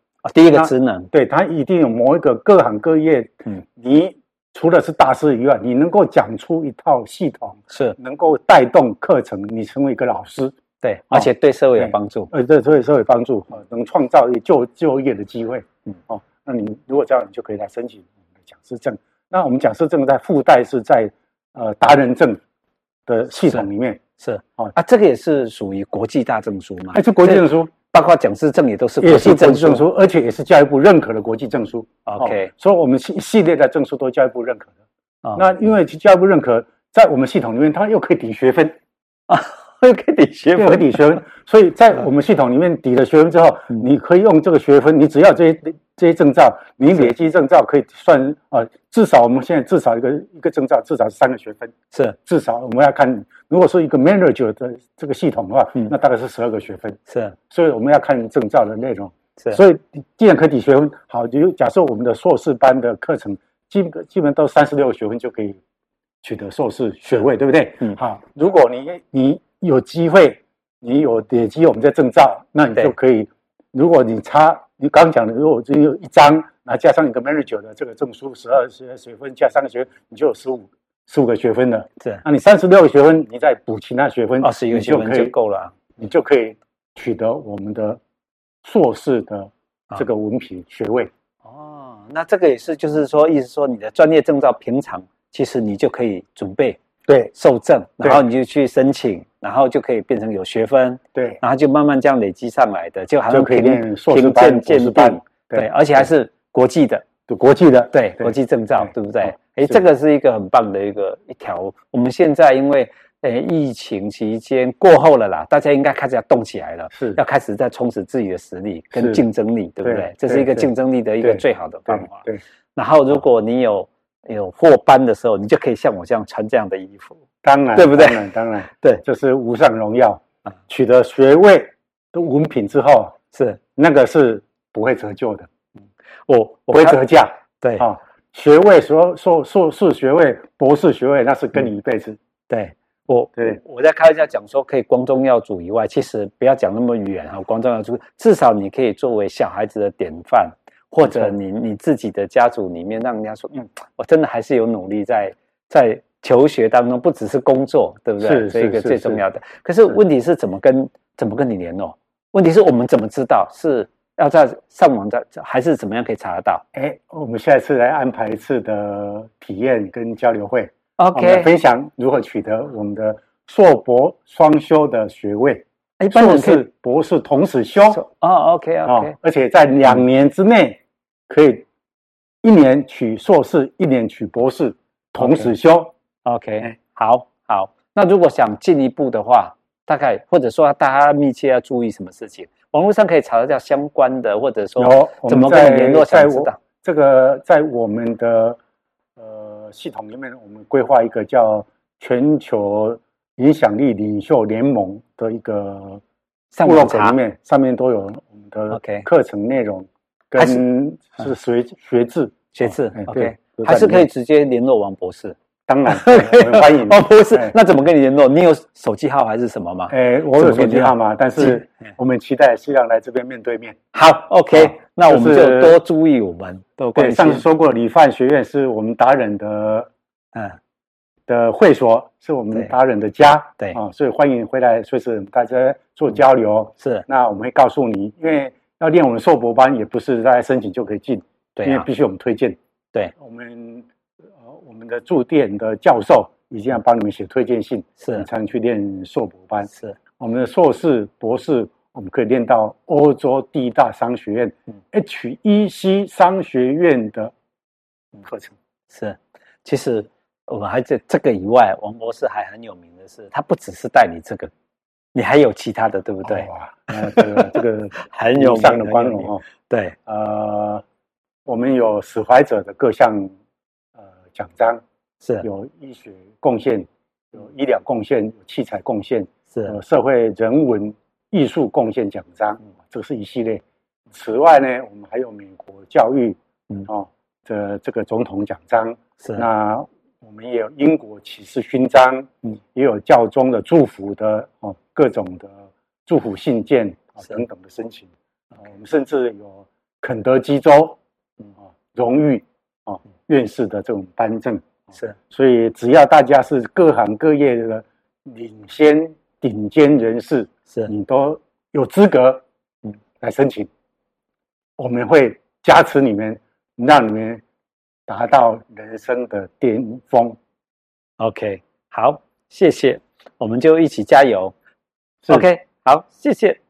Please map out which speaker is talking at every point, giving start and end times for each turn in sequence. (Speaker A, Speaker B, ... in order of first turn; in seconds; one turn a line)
Speaker A: 0.2-1.1
Speaker B: 0.5-10.5
Speaker A: 7.7-8.0
Speaker A: 10.8-12.3
Speaker B: 11.1-22.4
Speaker B: 23.1-24.0
Speaker A: 24.2-29.8
Speaker B: 26.9-27.7
Speaker B: 29.0-34.7
Speaker A: 32.1-32.5
Speaker B: 35.3-38.7
Speaker A: 39.3-41.0
Speaker B: 40.5-51.7
Speaker B: 52.2-65.6
Speaker A: 57.1-57.4
Speaker B: 66.2-85.3
Speaker A: 84.4-85.7
Speaker B: 86.0-88.0
Speaker B: 88.6-91.1
Speaker A: 91.4-96.8
Speaker B: 97.0-97.3
Speaker A: 97.3-107.0
Speaker B: 101.1-101.4
Speaker B: 103.3-106.1
Speaker B: 107.3-109.8
Speaker A: 107.9-127.2
Speaker B: 116.9-117.2
Speaker B: 118.9-119.2
Speaker B: 119.8-120.7
Speaker B: 121.2-122.4
Speaker B: 127.4-133.1
Speaker A: 127.7-129.0
Speaker A: 133.3-133.6
Speaker B: 133.8-135.5
Speaker A: 136.3-137.0
Speaker B: 136.7-142.2
Speaker A: 142.5-166.6
Speaker B: 151.0-151.3
Speaker B: 158.2-159.2
Speaker B: 166.7-178.0
Speaker A: 171.0-171.5
Speaker A: 176.0-176.6
Speaker A: 177.9-179.1
Speaker B: 178.8-181.7
Speaker B: 182.4-185.9
Speaker A: 185.2-185.5
Speaker A: 186.2-196.6
Speaker B: 194.8-198.6
Speaker B: 199.2-206.0
Speaker A: 206.5-207.2
Speaker B: 206.6-214.1
Speaker A: 208.7-209.0
Speaker A: 212.5-221.6
Speaker B: 215.7-217.6
Speaker B: 219.9-223.8
Speaker A: 223.9-227.4
Speaker B: 224.5-225.8
Speaker B: 226.9-229.9
Speaker B: 231.3-242.6
Speaker A: 236.8-237.0
Speaker A: 241.6-241.9
Speaker B: 243.2-243.9
Speaker B: 244.4-257.3
Speaker A: 248.0-248.2
Speaker A: 249.7-250.0
Speaker B: 258.2-258.6
Speaker A: 258.9-264.5
Speaker A: 265.1-269.9
Speaker B: 266.2-269.4
Speaker B: 270.1-270.8
Speaker B: 271.4-273.3
Speaker B: 274.0-274.8
Speaker B: 275.4-301.0
Speaker A: 289.2-289.4
Speaker B: 301.7-312.4
Speaker B: 313.2-313.7
Speaker B: 314.8-317.4
Speaker B: 318.1-320.4
Speaker A: 321.2-324.5
Speaker A: 325.3-326.6